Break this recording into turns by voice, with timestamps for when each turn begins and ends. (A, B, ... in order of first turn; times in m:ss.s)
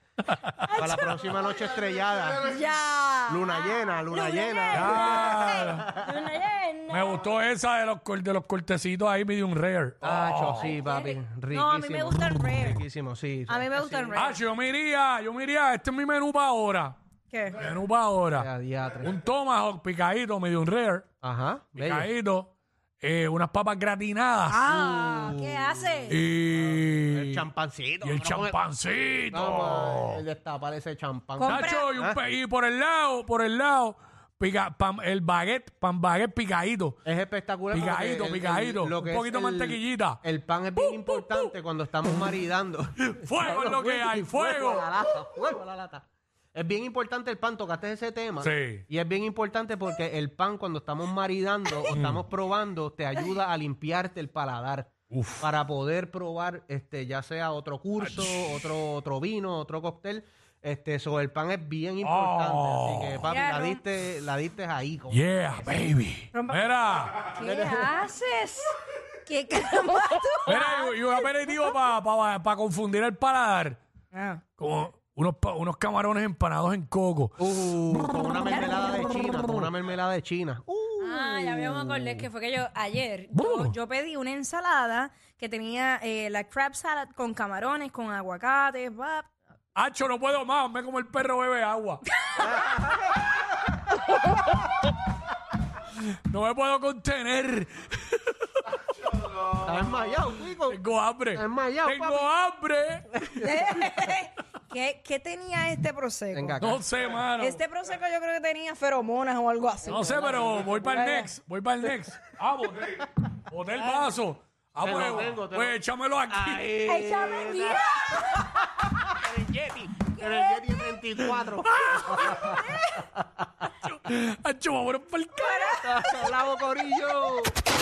0:00.6-0:01.3 A
0:00.8-0:02.6 B
0:02.4-0:07.3 A
0:03.3-0:06.1 B
0:04.7-0:05.8 C
0:06.9-0:10.7 C
0:10.0-0:14.2 B
0:10.6-0:12.8 A
0:13.5-0:14.4 A
0:14.1-0:17.0 C
0:17.3-0:17.6 A
0:17.5-0:18.5 C
0:18.3-0:19.2 B
0:19.0-0:21.1 C
0:21.2-0:22.1 B
0:21.8-0:24.6 C
0:24.5-0:26.2 A
0:24.7-0:25.7 B
0:26.1-0:27.4 C
0:27.1-0:28.6 B
0:28.0-0:30.2 C
0:29.3-0:32.2 B
0:31.4-0:31.9 A
0:31.5-0:37.0 C
0:37.0-1:05.2 B
0:37.7-0:40.2 C
0:40.8-0:41.5 C
0:43.0-0:44.9 C
0:48.4-0:48.8 C
0:51.9-0:52.2 C
0:55.1-0:55.4 C
0:58.0-0:58.6 C
1:02.0-1:03.3 C
1:03.3-1:03.8 A
1:05.1-1:07.3 C
1:06.3-1:06.6 A
1:07.2-1:08.7 A
1:07.4-1:07.9 B
1:09.2-1:11.6 A
1:10.5-1:13.8 C
1:14.1-1:14.4 A
1:14.6-1:17.4 C
1:17.4-1:22.3 B
1:21.0-1:29.3 A
1:23.4-1:23.7 C
1:29.8-1:32.0 C
1:32.2-1:32.5 A
1:32.4-1:33.4 B
1:36.3-1:38.6 C
1:39.5-1:42.3 B
1:40.7-1:43.3 C
1:43.2-1:43.8 B
1:43.4-1:46.6 A
1:46.3-1:46.9 B
1:46.6-1:47.6 C
1:47.4-1:50.2 A
1:49.8-1:56.8 C
1:50.0-1:50.8 B
1:50.8-1:51.3 A
1:54.8-1:55.8 B
1:56.3-2:02.6 B
1:56.9-1:58.6 A
2:00.1-2:00.8 A
2:02.0-2:02.4 C
2:02.0-2:03.1 A
2:03.8-2:05.9 C
2:05.4-2:06.0 A
2:05.8-2:07.5 B